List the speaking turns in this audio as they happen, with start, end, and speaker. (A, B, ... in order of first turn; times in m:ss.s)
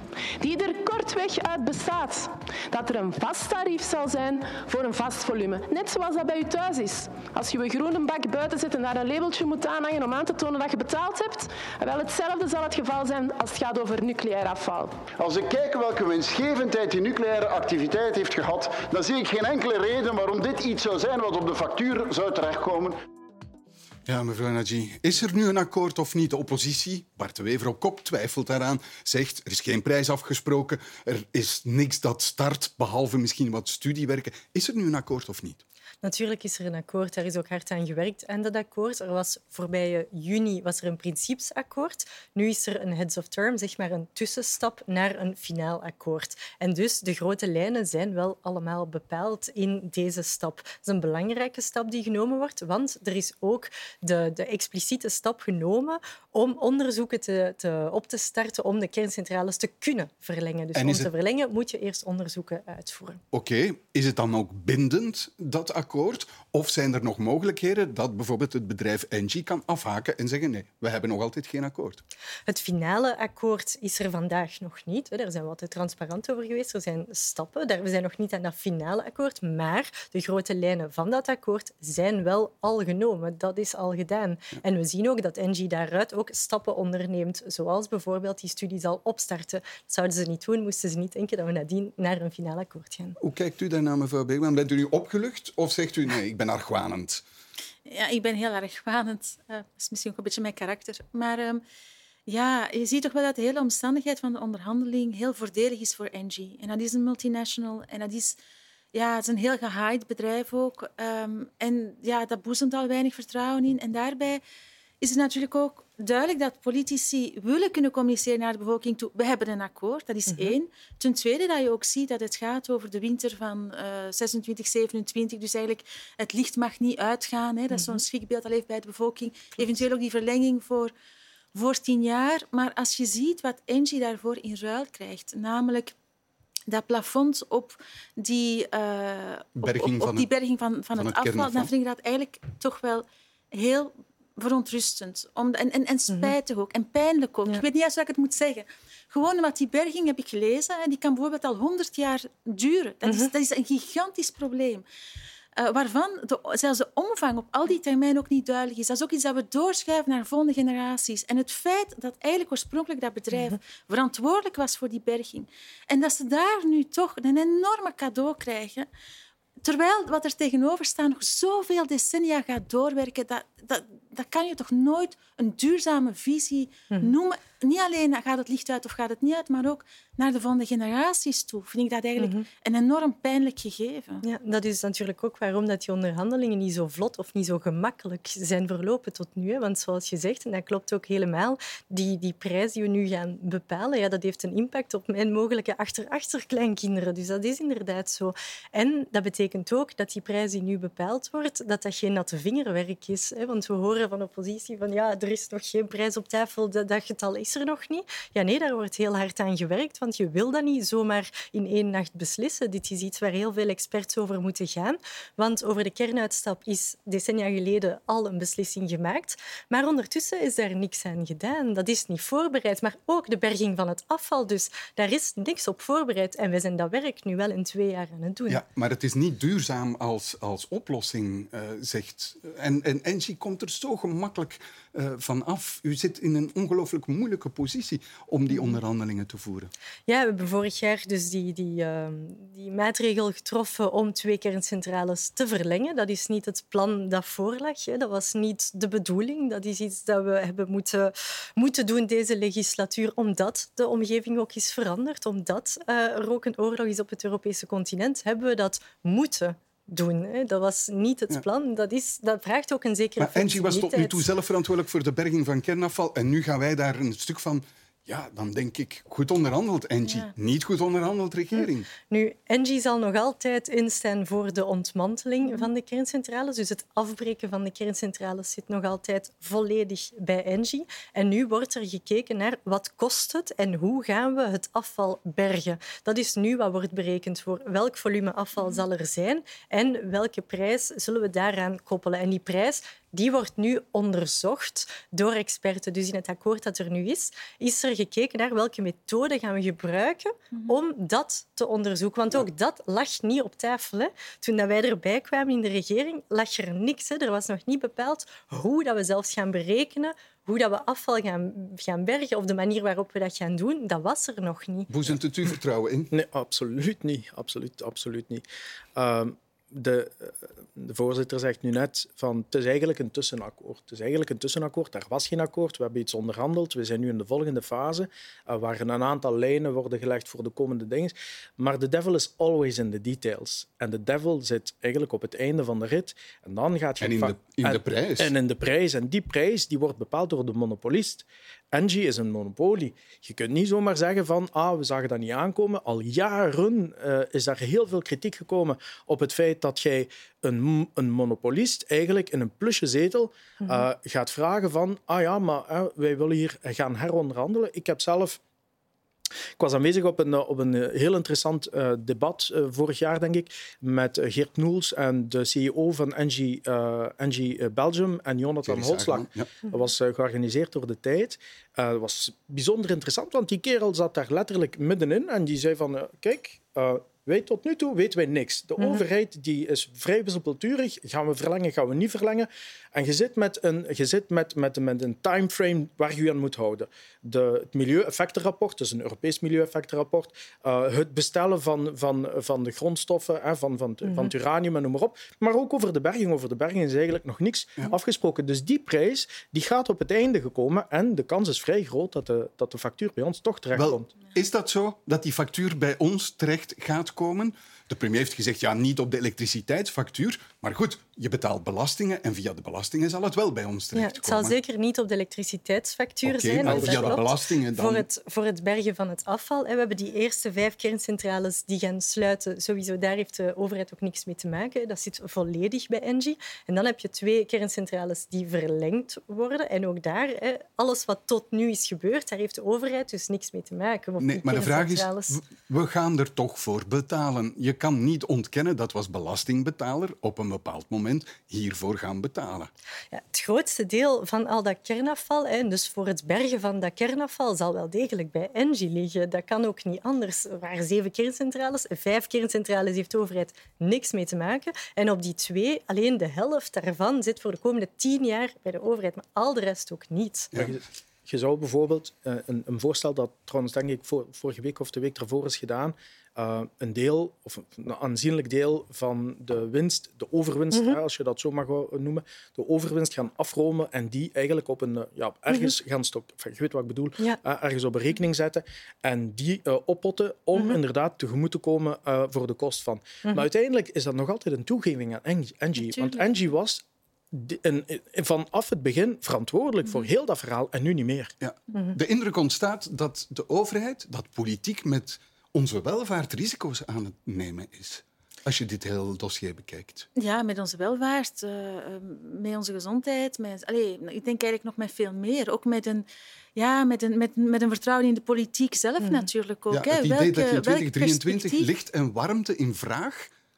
0:00.4-0:15.0 A
0:15.2-0:23.0 B
0:24.0-0:35.6 C
0:36.0-1:03.2 D
1:00.7-1:01.1 C
1:03.3-1:12.0 C
1:12.5-1:33.2 D
1:33.2-1:37.2 C
1:37.8-1:41.6 E
1:42.3-1:48.4 E
1:48.9-1:54.4 E
1:55.0-2:10.9 E
2:00.3-2:00.6 D
2:07.7-2:08.0 D
2:11.5-2:15.9 E
2:16.7-2:34.8 E
2:19.6-2:20.3 C
2:20.9-2:21.7 C
2:35.6-2:48.9 E
2:49.6-3:04.2 E
3:02.2-3:02.4 D
3:04.2-3:48.6 D
3:48.5-3:59.7 C
4:00.1-4:24.3 D
4:23.2-4:31.9 C
4:30.0-4:30.3 E
4:31.5-5:14.9 D
5:14.9-5:16.1 C
5:16.1-5:18.4 F
5:19.0-5:58.4 F
5:37.0-5:38.3 C
5:59.6-6:44.1 F
6:08.6-6:09.5 C
6:34.1-6:34.3 D
6:43.7-6:54.6 C
6:53.9-7:15.4 D
6:56.2-6:58.0 C
7:14.2-7:22.7 C
7:23.1-7:40.5 D
7:40.5-7:40.8 C
7:40.6-8:11.3 F
7:50.7-7:51.0 D
8:05.8-8:06.5 E
8:11.4-8:20.1 C
8:20.2-8:31.7 E
8:29.7-8:33.3 C